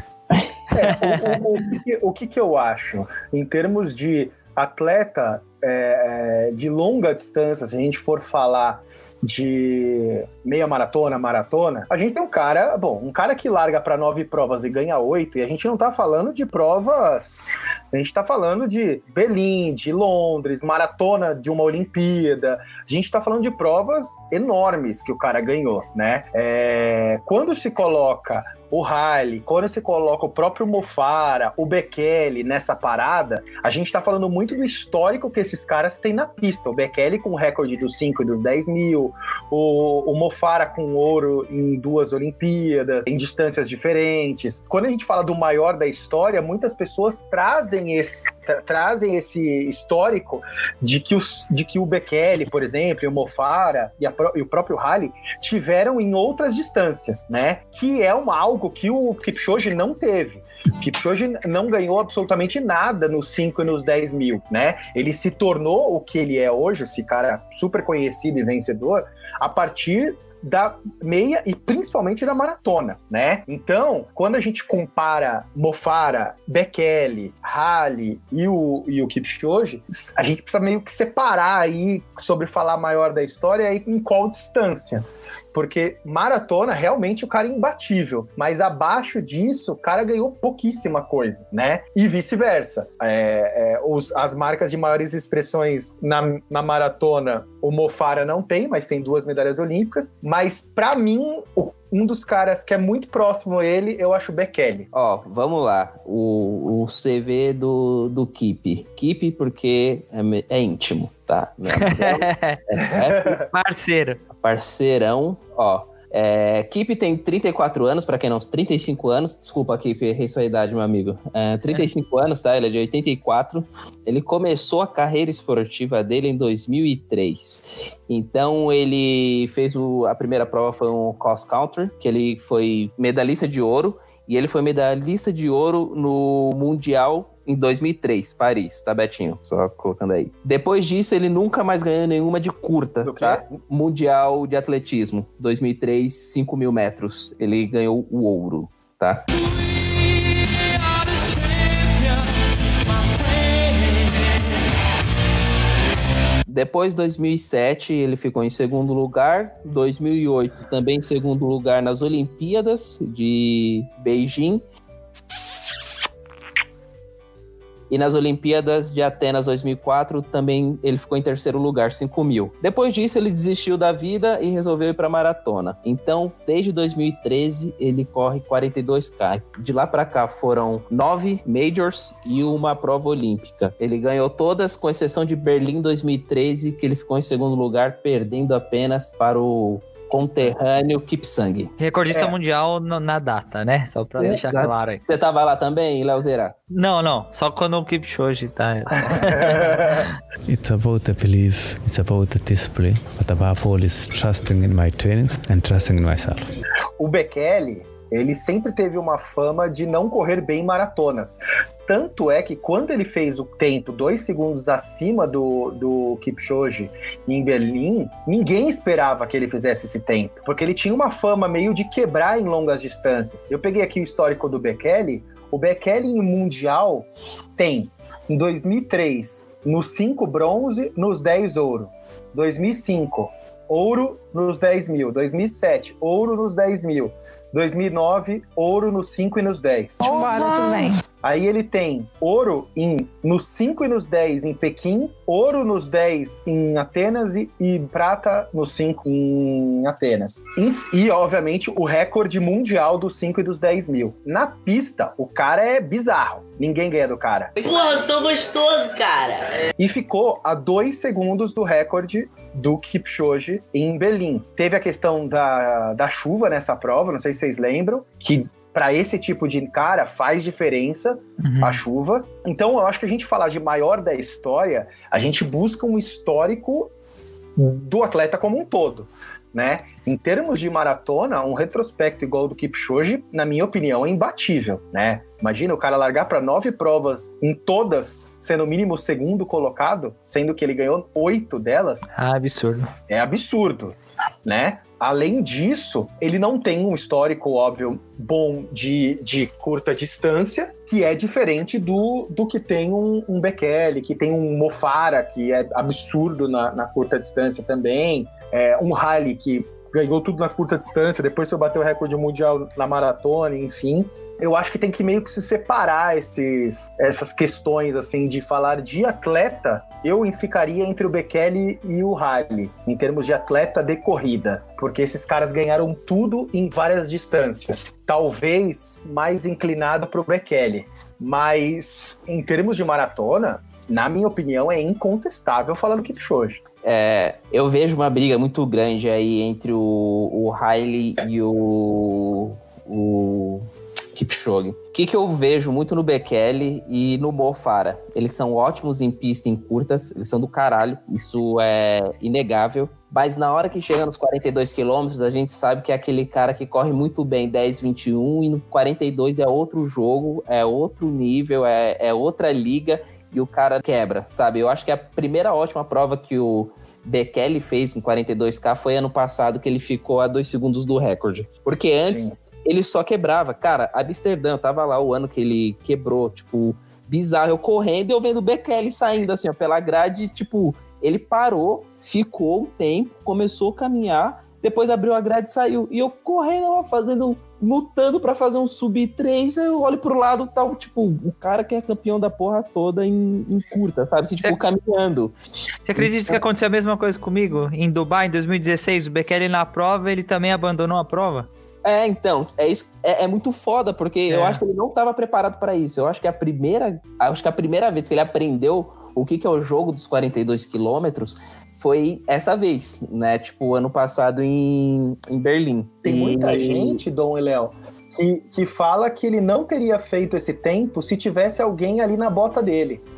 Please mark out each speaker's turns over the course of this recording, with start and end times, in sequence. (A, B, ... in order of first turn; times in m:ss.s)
0:00.7-1:44.9 A
0:00.9-0:01.4 B
1:44.9-1:53.4 C
1:51.8-1:52.6 B
1:53.1-1:53.4 A
1:53.5-1:54.2 B
1:54.4-2:29.3 C
2:23.0-2:23.5 A
2:31.3-2:32.1 C
2:36.5-2:44.6 C
2:47.9-3:11.7 C
3:11.8-3:15.0 B
3:14.2-3:16.6 C
3:16.7-3:20.1 B
3:19.0-3:20.1 A
3:20.5-3:26.4 D
3:27.0-4:00.4 A
4:00.0-4:01.0 C
4:01.2-4:17.5 A
4:17.6-4:19.6 E
4:19.8-4:36.9 A
4:31.4-4:31.8 B
4:37.6-4:52.1 A
4:52.1-4:52.9 B
4:53.1-5:36.6 A
5:36.8-6:35.4 C
6:12.1-6:12.3 A
6:35.8-6:41.5 B
6:36.0-6:36.4 C
6:41.8-6:57.0 C
6:44.3-6:44.6 B
6:56.0-7:03.0 A